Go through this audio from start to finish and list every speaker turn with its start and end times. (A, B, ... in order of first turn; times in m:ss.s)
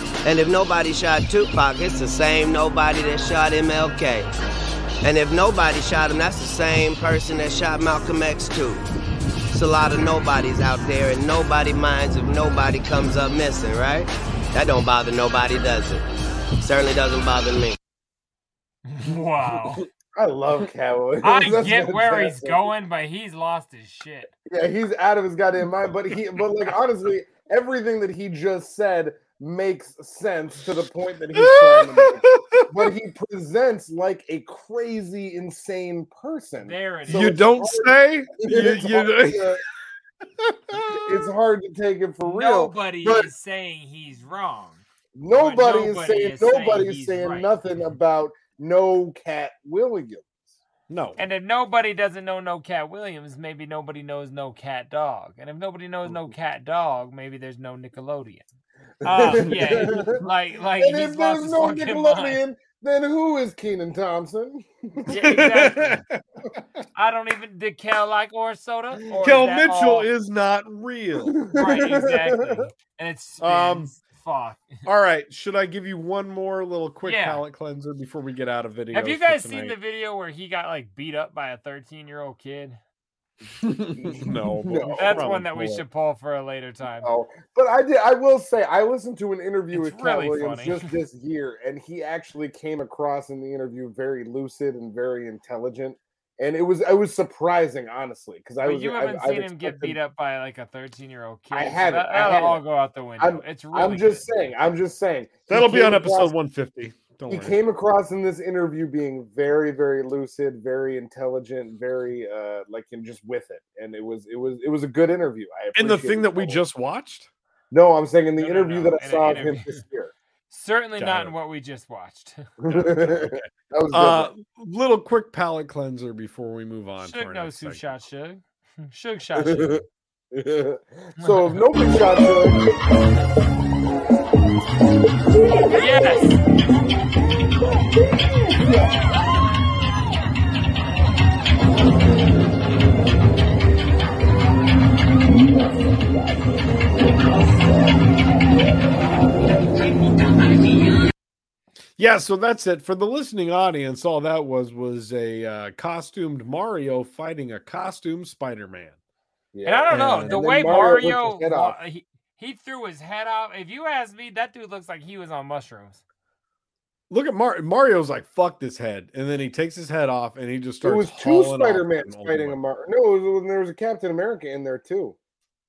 0:00.2-0:04.3 A
0:05.0-0:08.8 A
0:09.5-0:16.0 A
0:16.6-0:17.8 A
0:18.9-0:19.8 B
0:20.1-0:22.7 C
0:21.2-0:24.3 B
0:24.5-0:39.6 C
0:31.3-0:32.9 D
0:36.6-0:37.4 B
0:37.1-0:39.6 D
0:40.4-0:41.1 D
0:40.8-0:43.3 C
0:42.2-0:47.5 B
0:45.2-0:50.3 C
0:50.9-0:51.2 D
0:51.2-0:58.5 B
0:59.0-1:02.4 B
0:59.0-1:00.2 C
1:00.8-1:05.5 C
1:05.1-1:06.0 B
1:05.2-1:06.2 D
1:06.9-1:10.1 B
1:09.2-1:11.4 D
1:11.2-1:12.6 C
1:11.5-1:14.7 B
1:13.4-1:13.9 D
1:14.8-1:19.8 D
1:17.0-1:17.4 B
1:18.9-1:22.8 B
1:23.6-1:25.8 D
1:23.9-1:25.3 C
1:25.0-1:27.1 B
1:27.0-1:40.0 C
1:29.7-1:30.9 B
1:38.6-1:44.4 B
1:41.5-1:42.6 C
1:43.2-1:46.3 C
1:45.5-1:47.6 D
1:47.3-1:56.6 C
1:55.8-1:57.3 D
1:57.7-2:00.1 C
1:58.4-1:59.8 B
2:00.5-2:02.4 B
2:01.0-2:01.3 D
2:02.6-2:04.3 C
2:02.7-2:07.9 D
2:07.0-2:09.8 B
2:09.4-2:09.8 C
2:10.3-2:12.6 C
2:11.2-2:11.6 B
2:15.7-2:16.4 B
2:32.0-2:39.0 D
2:39.5-2:41.8 C
2:39.6-2:46.0 B
2:39.9-2:40.4 D
2:47.1-2:52.6 D
2:50.8-2:55.2 C